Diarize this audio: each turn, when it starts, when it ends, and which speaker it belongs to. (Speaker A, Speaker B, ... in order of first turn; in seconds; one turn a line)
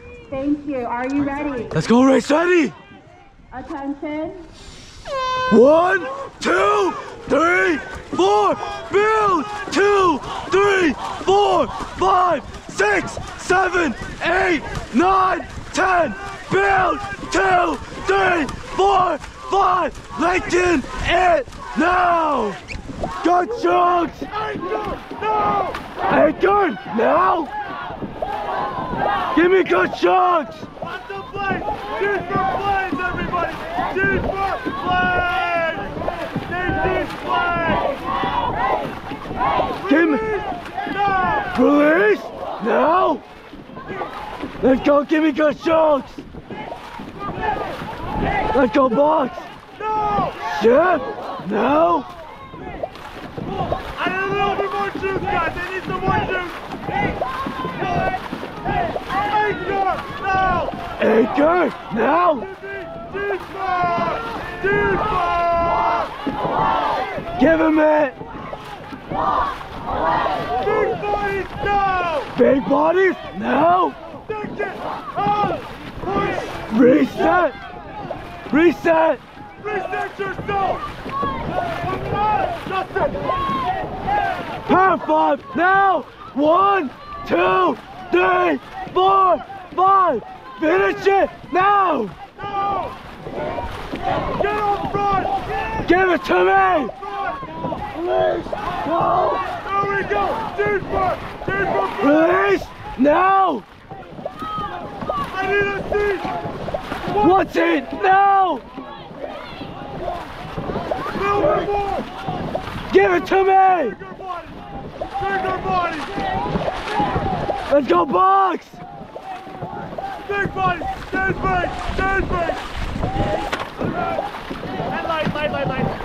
Speaker A: 0.3-1.9
Speaker B: 1.8-2.8
Speaker A: 3.5-4.5
Speaker B: 5.5-22.6
Speaker B: 23.2-24.3
Speaker C: 24.5-25.8
Speaker B: 26.0-27.5
Speaker B: 29.3-30.7
Speaker C: 31.1-35.9
Speaker C: 36.5-38.0
Speaker B: 39.8-40.4
Speaker B: 41.3-43.2
Speaker B: 44.6-46.2
Speaker B: 48.5-49.5
Speaker B: 50.3-52.1
Speaker C: 54.0-56.6
Speaker C: 59.3-60.7
Speaker B: 60.9-62.6
Speaker C: 63.1-64.3
Speaker C: 65.1-65.8
Speaker B: 67.3-68.2
Speaker C: 70.7-72.3
Speaker B: 72.3-74.3
Speaker C: 74.5-75.6
Speaker B: 76.3-77.6
Speaker B: 78.5-79.2
Speaker C: 79.8-80.8
Speaker C: 81.9-83.3
Speaker B: 84.7-92.2
Speaker C: 94.6-95.3
Speaker B: 94.8-95.0
Speaker B: 95.7-97.1
Speaker B: 98.0-99.9
Speaker C: 99.9-101.4
Speaker B: 101.6-103.7
Speaker C: 105.4-106.3
Speaker B: 107.1-108.7
Speaker C: 111.3-112.1
Speaker B: 112.9-114.2
Speaker C: 115.3-116.1
Speaker B: 117.7-118.8
Speaker C: 120.5-122.6
Speaker C: 125.0-125.9